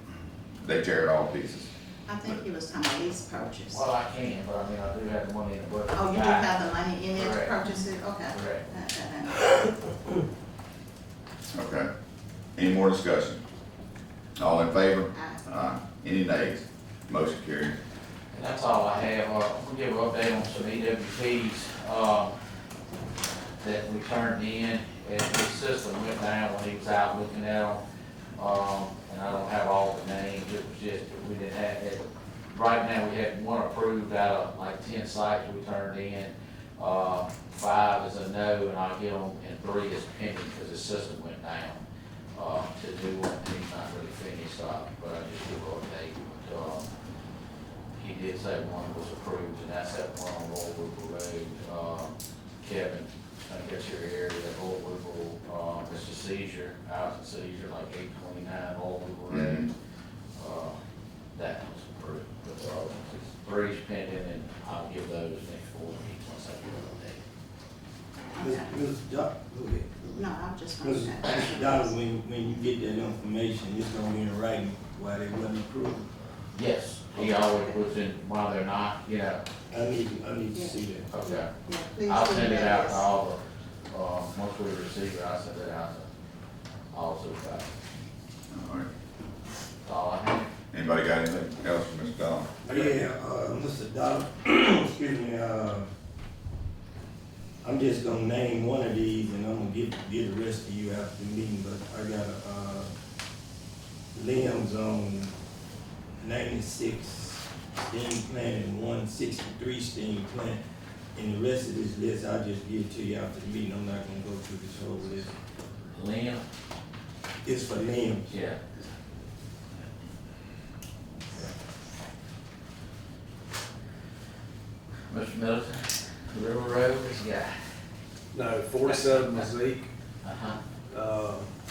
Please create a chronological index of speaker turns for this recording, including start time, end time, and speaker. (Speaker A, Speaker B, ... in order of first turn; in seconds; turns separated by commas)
Speaker A: 0.6-1.7, Speaker B: 2.1-3.8, Speaker C: 3.7-6.6, Speaker B: 5.9-10.0, Speaker C: 7.2-7.5, Speaker C: 8.3-8.7, Speaker A: 11.5-11.9, Speaker A: 12.6-13.4, Speaker A: 14.4-17.8, Speaker B: 15.1-15.4, Speaker C: 18.3-22.3, Speaker C: 23.6-27.8, Speaker C: 28.4-41.8, Speaker C: 42.3-46.9, Speaker C: 47.9-59.7, Speaker A: 59.3-59.7, Speaker C: 60.4-60.8, Speaker C: 61.3-67.2, Speaker B: 68.3-68.6, Speaker D: 68.4-70.1, Speaker B: 70.0-71.9, Speaker D: 70.8-76.1, Speaker C: 76.5-79.4, Speaker B: 77.2-77.7, Speaker D: 79.7-81.1, Speaker C: 81.1-81.5, Speaker B: 81.3-83.0, Speaker C: 82.0-86.1, Speaker C: 86.9-87.7, Speaker A: 88.5-88.9, Speaker C: 89.8-90.5, Speaker A: 90.7-92.6, Speaker D: 92.6-95.9, Speaker D: 97.6-102.9, Speaker D: 104.1-105.3, Speaker D: 106.2-110.6, Speaker D: 111.1-115.3, Speaker C: 115.9-116.4, Speaker D: 117.4-118.3, Speaker C: 118.3-118.7, Speaker C: 125.1-127.5, Speaker E: 128.3-129.9, Speaker C: 128.9-129.4, Speaker C: 130.2-130.6, Speaker E: 130.9-131.5